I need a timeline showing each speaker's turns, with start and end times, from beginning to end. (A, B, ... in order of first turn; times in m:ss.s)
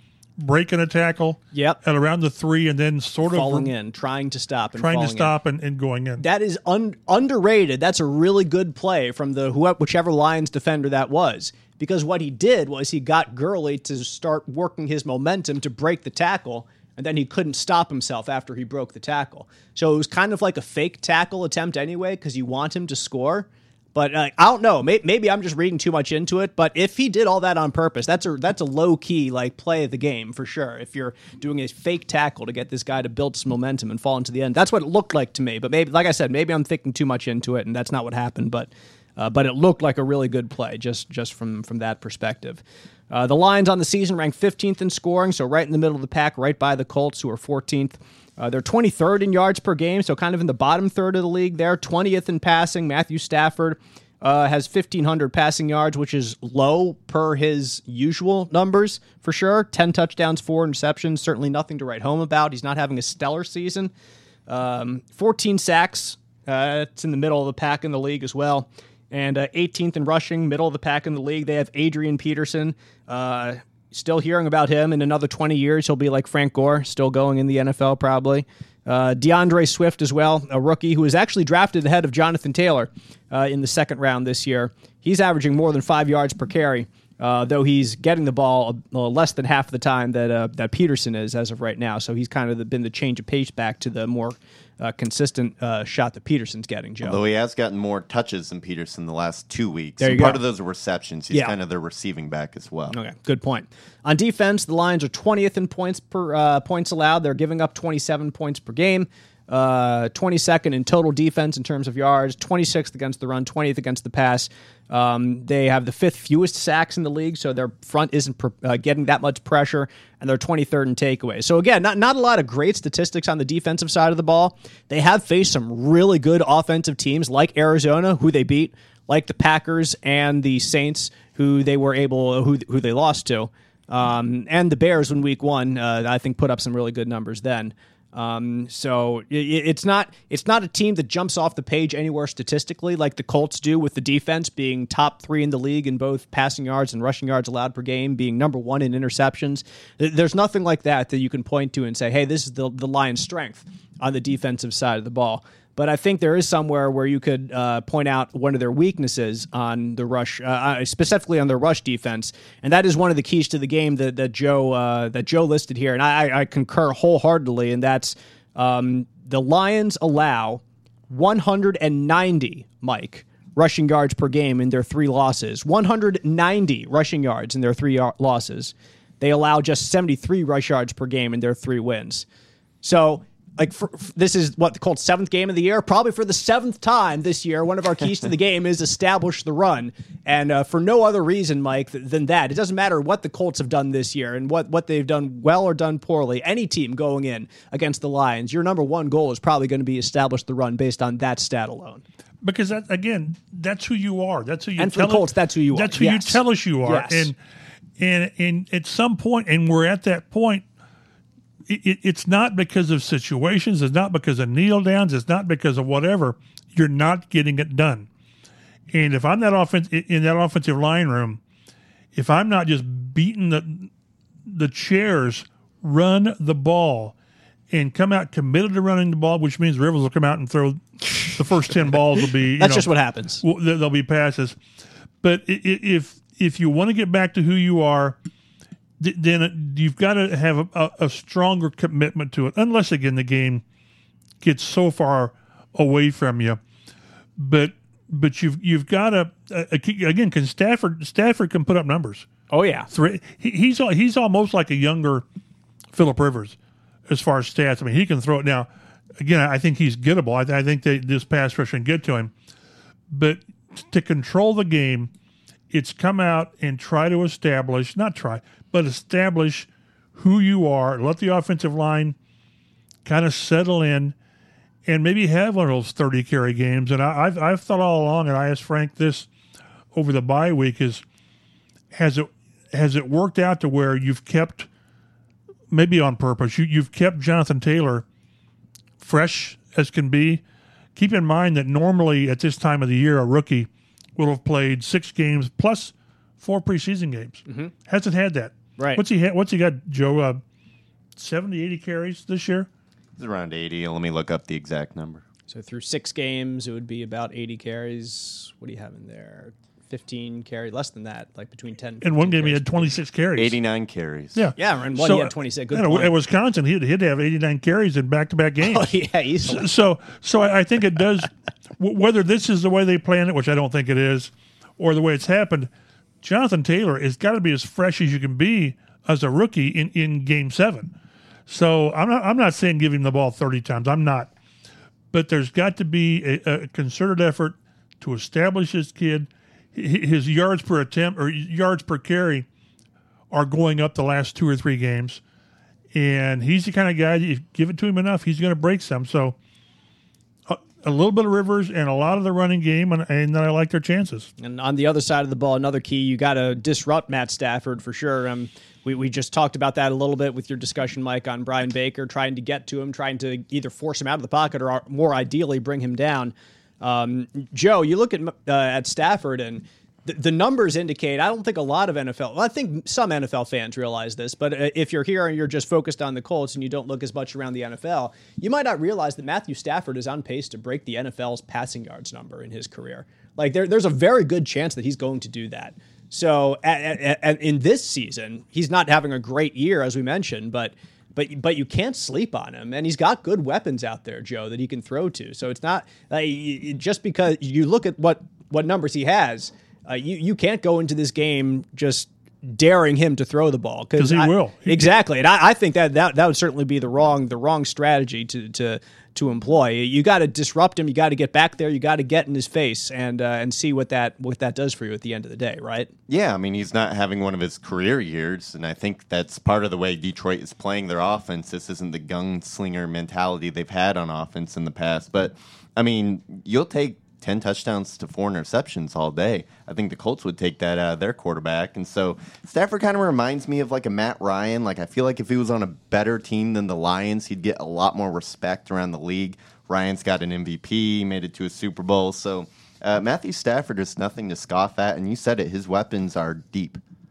0:00.4-0:03.7 A
0:01.5-0:01.8 B
0:03.2-0:05.3 B
0:04.8-0:06.2 A
0:06.2-1:03.9 B
1:04.5-1:37.2 B
1:37.0-1:43.0 C
1:40.0-1:40.4 B
1:42.9-3:02.2 B
3:02.8-3:22.0 B
3:22.4-3:27.4 A
3:24.8-3:27.3 B
3:28.0-3:30.6 A
3:31.7-3:38.1 A
3:38.9-3:41.4 A
3:42.1-3:43.9 A
3:44.5-3:47.1 A
3:47.7-3:52.9 A
3:52.6-3:53.4 B
3:53.4-3:54.6 A
3:55.2-3:58.2 A
3:59.0-4:03.6 A
4:04.4-4:06.6 A
4:07.4-4:12.3 A
4:12.5-4:12.9 B
4:12.9-4:15.2 A
4:15.9-4:16.6 A
4:17.1-4:22.3 A
4:23.1-4:25.1 A
4:25.7-4:32.2 A
4:33.0-4:34.1 A
4:34.8-4:39.3 A
4:39.9-4:41.0 A
4:41.9-4:44.7 A
4:45.7-4:48.0 A
4:49.0-4:50.4 A
4:51.0-5:00.4 A
5:01.2-5:02.7 A
5:03.2-5:05.2 C
5:05.5-5:12.9 B
5:12.0-5:13.5 A
5:13.4-5:14.5 C
5:14.3-5:18.9 A
5:14.6-5:16.1 B
5:18.6-5:19.7 B
5:19.5-5:25.7 A
5:26.2-5:30.9 A
5:31.5-5:34.3 A
5:35.1-5:42.4 A
5:43.3-5:45.2 A
5:45.9-5:49.4 A
5:50.5-5:54.3 A
5:54.4-6:55.9 B
6:44.0-6:44.9 A
6:56.1-7:26.8 C